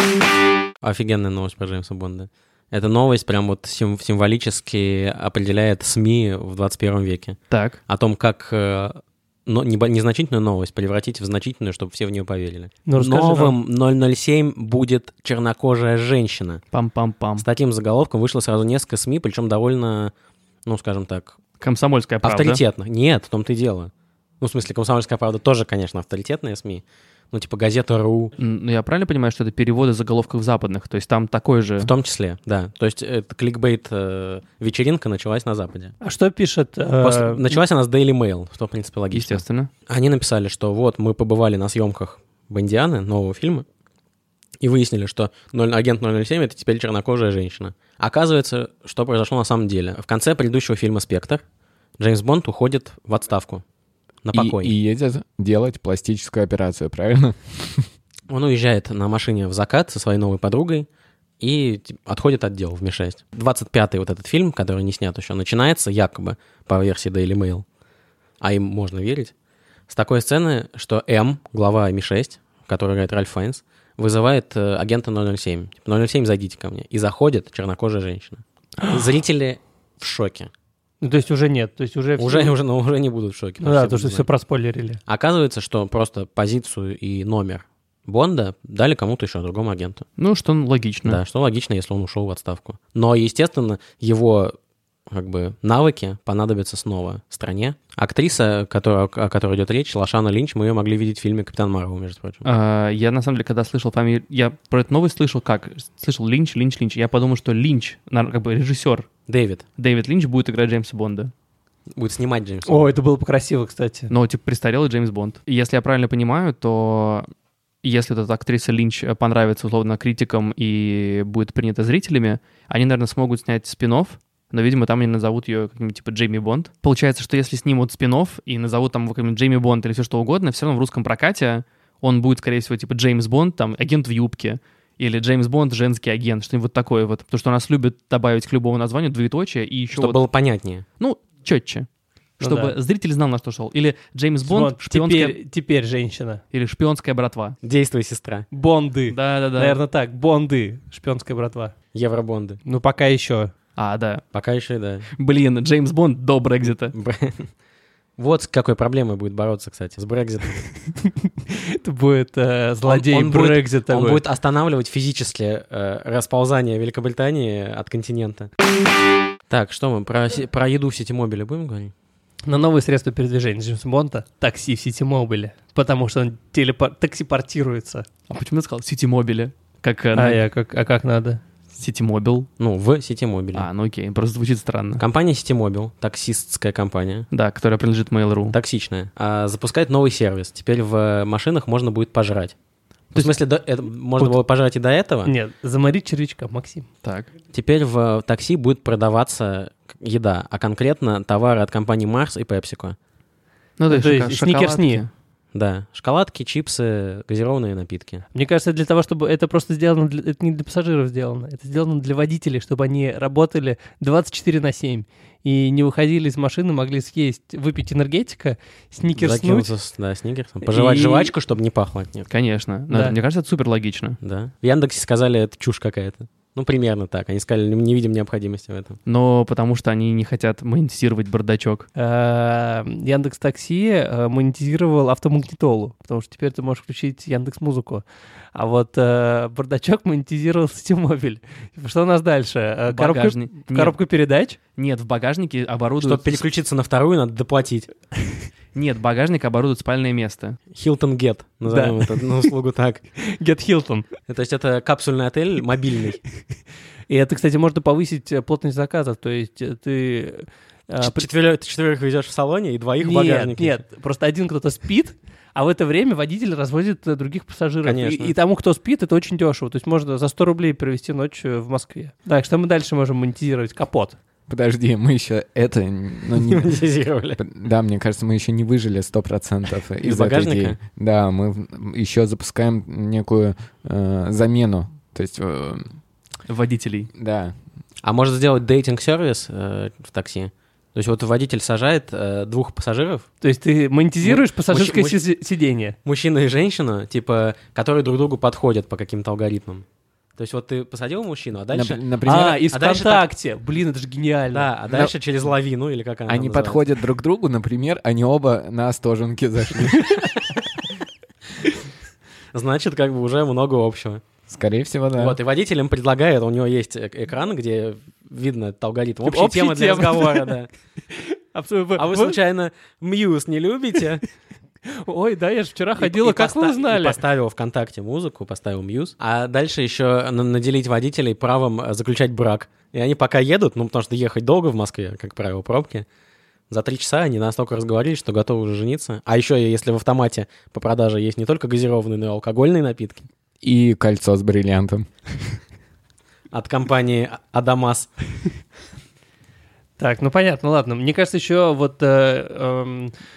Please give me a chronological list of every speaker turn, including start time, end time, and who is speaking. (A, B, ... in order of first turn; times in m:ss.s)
0:00.8-0:16.6 A
0:07.5-0:07.8 B
0:12.9-0:13.6 C
0:16.7-0:17.5 B
0:17.4-0:20.1 A
0:20.6-0:21.4 A
0:21.6-0:22.6 B
0:22.2-0:28.3 A
0:28.4-0:31.9 B
0:31.8-0:35.9 A
0:36.0-0:37.6 C
0:37.0-0:43.7 A
0:39.1-0:39.7 B
0:44.6-0:51.4 A
0:52.0-0:53.6 A
0:54.2-0:54.7 A
0:54.3-0:57.9 D
0:58.3-1:00.9 A
1:01.4-1:07.6 A
1:08.4-1:09.3 A
1:09.9-1:20.5 A
1:21.0-1:22.6 C
1:22.2-1:24.3 A
1:23.6-1:25.0 C
1:25.1-1:30.1 A
1:30.2-1:31.2 B
1:31.1-1:34.6 A
1:35.1-1:42.4 A
1:42.4-1:49.1 B
1:49.3-1:49.6 A
1:49.8-1:51.3 B
1:52.0-1:52.8 A
1:52.7-1:54.1 C
1:54.1-1:57.3 B
1:57.8-2:20.2 B
2:19.9-2:20.8 A
2:21.0-2:21.9 B
2:22.4-2:25.4 B
2:22.4-2:22.8 C
2:24.4-2:26.4 C
2:26.5-2:27.6 B
2:27.6-2:28.5 A
2:28.5-2:31.7 C
2:29.1-2:29.8 B
2:31.9-2:32.6 A
2:32.6-2:33.5 C
2:33.8-2:34.2 B
2:34.3-2:35.1 A
2:35.2-2:37.0 B
2:36.9-2:37.5 A
2:38.2-2:40.7 A
2:41.0-2:44.2 C
2:42.8-2:48.5 A
2:49.5-2:51.9 A
2:52.5-2:58.1 C
2:58.3-3:00.4 B
3:00.1-3:01.4 C
3:01.7-3:02.5 B
3:02.6-3:03.7 A
3:03.5-3:05.0 B
3:05.0-3:07.3 A
3:07.3-3:08.6 B
3:08.5-3:12.6 A
3:13.1-3:15.3 A
3:15.2-3:16.9 C
3:17.0-3:17.3 B
3:17.5-3:23.0 A
3:23.8-3:25.1 B
3:23.9-3:25.0 C
3:25.5-3:28.2 A
3:28.3-3:39.7 C
3:39.2-3:42.3 A
3:42.3-3:44.2 B
3:42.9-3:43.2 C
3:44.2-3:49.0 A
3:49.1-3:51.9 B
3:52.0-3:58.0 C
3:58.6-4:04.6 C
4:02.9-4:04.0 B
4:04.8-4:06.4 B
4:06.0-4:07.9 A
4:08.7-4:10.6 B
4:10.7-4:13.0 A
4:11.7-4:12.5 C
4:13.2-4:14.1 C
4:14.3-4:16.2 A
4:17.1-4:21.3 C
4:21.0-4:23.8 A
4:23.0-4:34.2 C
4:27.8-4:28.3 A
4:34.5-4:36.8 D
4:36.4-4:37.4 A
4:37.4-4:45.9 D
4:40.0-4:40.8 A
4:46.5-4:47.1 B
4:47.2-4:47.5 D
4:48.0-4:53.3 A
4:53.4-4:56.0 C
4:54.2-4:55.2 A
4:56.0-4:59.8 A
5:00.4-5:03.3 A
5:01.7-5:02.6 D
5:02.2-5:04.7 C
5:04.5-5:06.8 A
5:06.3-5:10.3 D
5:12.5-5:14.2 A
5:14.5-5:15.4 D
5:15.2-5:20.7 A
5:19.2-5:20.6 C
5:21.1-5:22.4 C
5:22.0-5:24.2 A
5:24.9-5:27.2 C
5:26.0-5:36.1 A
5:36.7-5:43.3 A
5:43.6-5:45.1 D
5:46.5-5:48.1 A
5:50.0-5:53.1 C